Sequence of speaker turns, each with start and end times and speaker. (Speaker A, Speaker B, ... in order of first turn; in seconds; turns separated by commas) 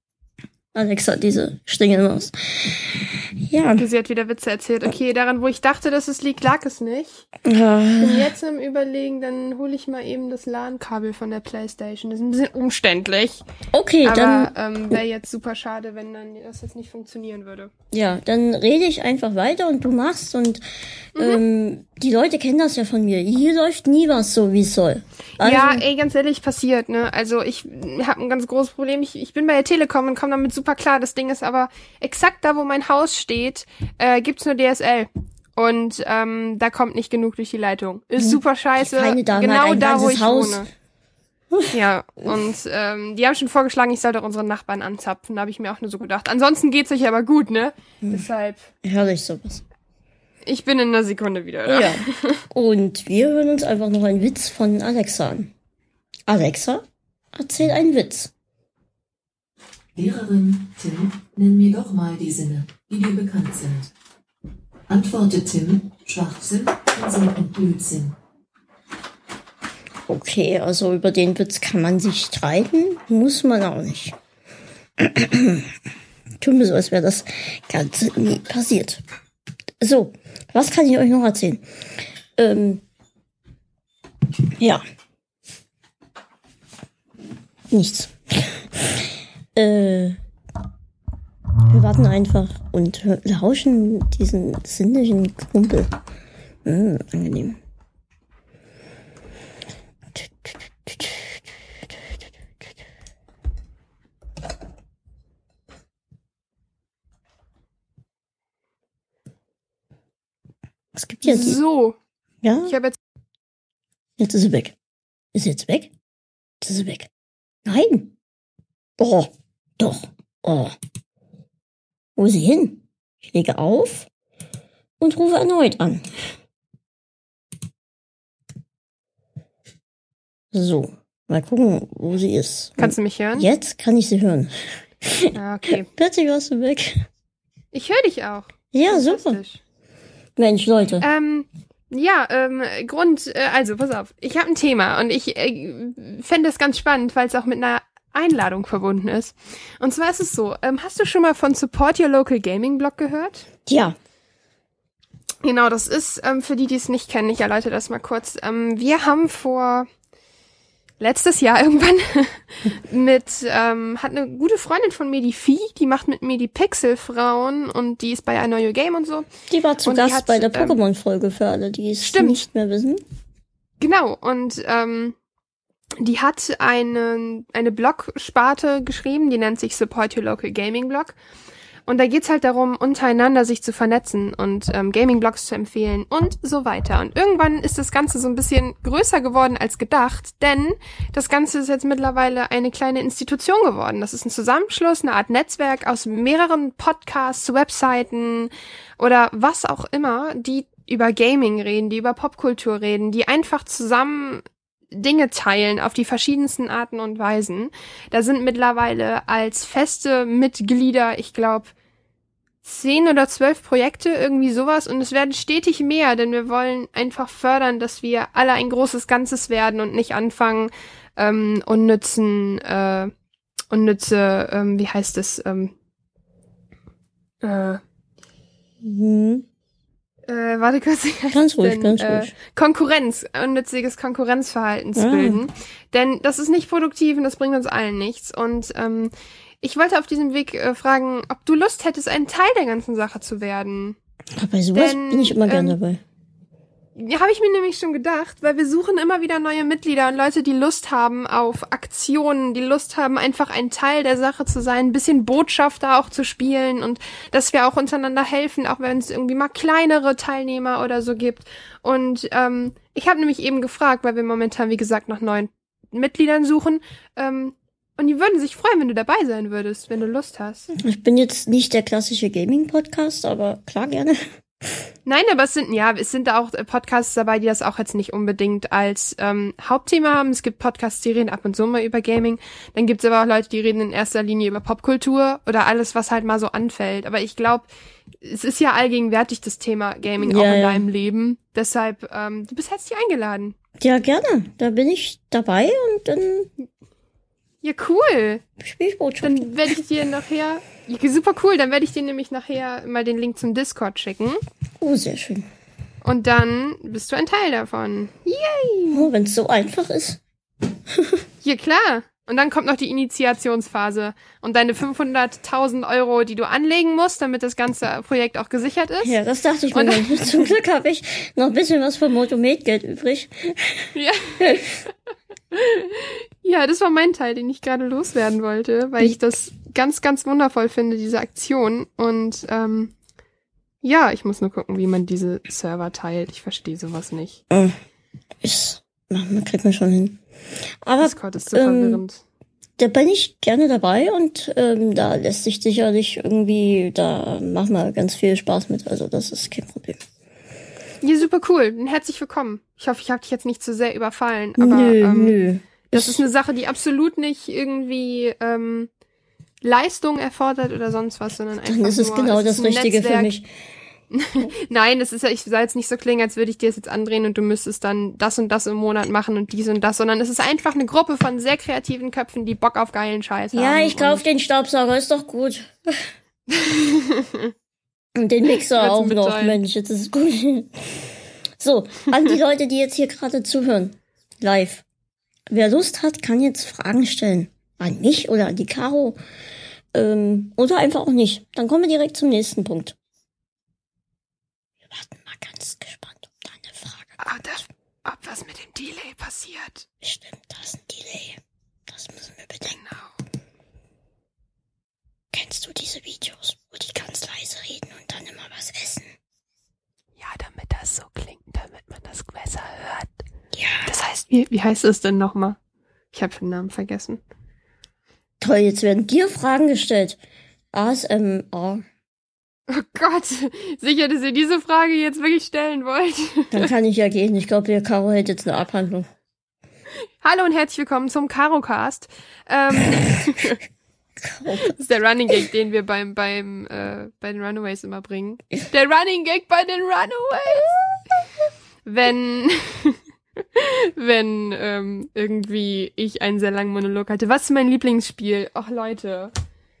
Speaker A: 0.7-3.8, Speaker B: 3.8-7.2, Speaker A: 7.4-8.3, Speaker B: 8.0-13.4, Speaker A: 13.7-14.5, Speaker B: 14.0-17.7, Speaker A: 17.9-20.6, Speaker B: 21.1-21.4, Speaker A: 21.1-25.8, Speaker B: 25.4-40.7, Speaker A: 38.2-40.7, Speaker B: 41.7-48.7, Speaker A: 48.8-49.6, Speaker B: 50.5-52.4, Speaker A: 51.7-55.5, Speaker A: 56.3-58.3, Speaker C: 59.9-63.9, Speaker C: 64.9-68.1, Speaker A: 70.1-74.2, Speaker A: 75.0-75.7, Speaker A: 76.4-79.0, Speaker A: 79.8-81.6, Speaker A: 82.3-82.8, Speaker A: 87.7-90.2, Speaker A: 91.7-95.9, Speaker A: 96.6-97.6, Speaker A: 100.1-101.4, Speaker A: 110.9-111.6, Speaker B: 111.2-112.0, Speaker A: 112.4-112.7, Speaker B: 112.7-113.0, Speaker A: 114.2-114.8, Speaker A: 115.3-115.9, Speaker A: 116.6-117.1, Speaker A: 117.7-118.1, Speaker A: 119.0-120.7, Speaker A: 122.2-124.1, Speaker A: 125.0-126.1, Speaker A: 130.5-137.1, Speaker B: 132.8-133.5, Speaker B: 135.3-135.8, Speaker B: 137.7-139.6, Speaker A: 138.7-139.4, Speaker A: 140.4-141.0, Speaker B: 141.0-153.5, Speaker A: 153.7-153.9, Speaker B: 155.4-159.9, Speaker B: 161.0-169.3, Speaker A: 169.5-173.0, Speaker B: 169.8-170.8, Speaker B: 172.0-172.4, Speaker B: 173.8-175.2, Speaker B: 176.0-181.2, Speaker B: 181.8-211.7, Speaker B: 212.6-223.1, Speaker B: 223.7-225.7, Speaker B: 227.4-227.8, Speaker A: 228.8-229.4, Speaker B: 230.3-244.0, Speaker A: 231.3-232.3, Speaker A: 234.9-235.4, Speaker A: 244.3-246.0, Speaker B: 244.7-245.8, Speaker B: 247.0-270.7, Speaker A: 270.8-274.2, Speaker B: 275.1-287.7, Speaker B: 288.2-293.5, Speaker A: 290.2-290.9, Speaker A: 293.8-296.5, Speaker B: 297.6-298.4, Speaker A: 298.6-299.4, Speaker B: 299.2-304.4, Speaker A: 304.8-305.5, Speaker B: 306.0-309.1, Speaker A: 308.9-310.2, Speaker A: 310.9-311.2, Speaker B: 311.4-319.1, Speaker A: 319.0-324.8, Speaker B: 319.7-320.3, Speaker B: 323.9-324.4, Speaker B: 325.5-332.9, Speaker B: 333.8-337.4, Speaker A: 337.5-337.8, Speaker A: 338.4-340.2, Speaker A: 340.8-342.0, Speaker B: 341.0-342.2, Speaker A: 342.8-350.0, Speaker B: 351.0-358.9, Speaker A: 354.6-356.2, Speaker B: 359.6-363.3, Speaker A: 361.6-363.4, Speaker B: 364.1-374.2, Speaker A: 373.5-376.1, Speaker B: 376.5-377.5, Speaker A: 378.1-384.8, Speaker B: 378.8-379.6, Speaker A: 385.5-389.2, Speaker A: 389.9-392.9, Speaker A: 394.9-397.2, Speaker B: 397.2-399.9, Speaker A: 400.0-402.8, Speaker B: 402.8-403.1, Speaker A: 405.3-409.1, Speaker B: 410.2-413.2, Speaker A: 413.5-413.9, Speaker B: 413.8-415.6, Speaker B: 416.1-417.2, Speaker A: 418.4-420.2, Speaker A: 420.7-421.8, Speaker B: 422.7-426.7, Speaker A: 426.5-429.1, Speaker B: 430.2-433.6, Speaker A: 434.2-434.7, Speaker B: 434.6-441.0, Speaker B: 441.8-443.0, Speaker B: 443.5-449.3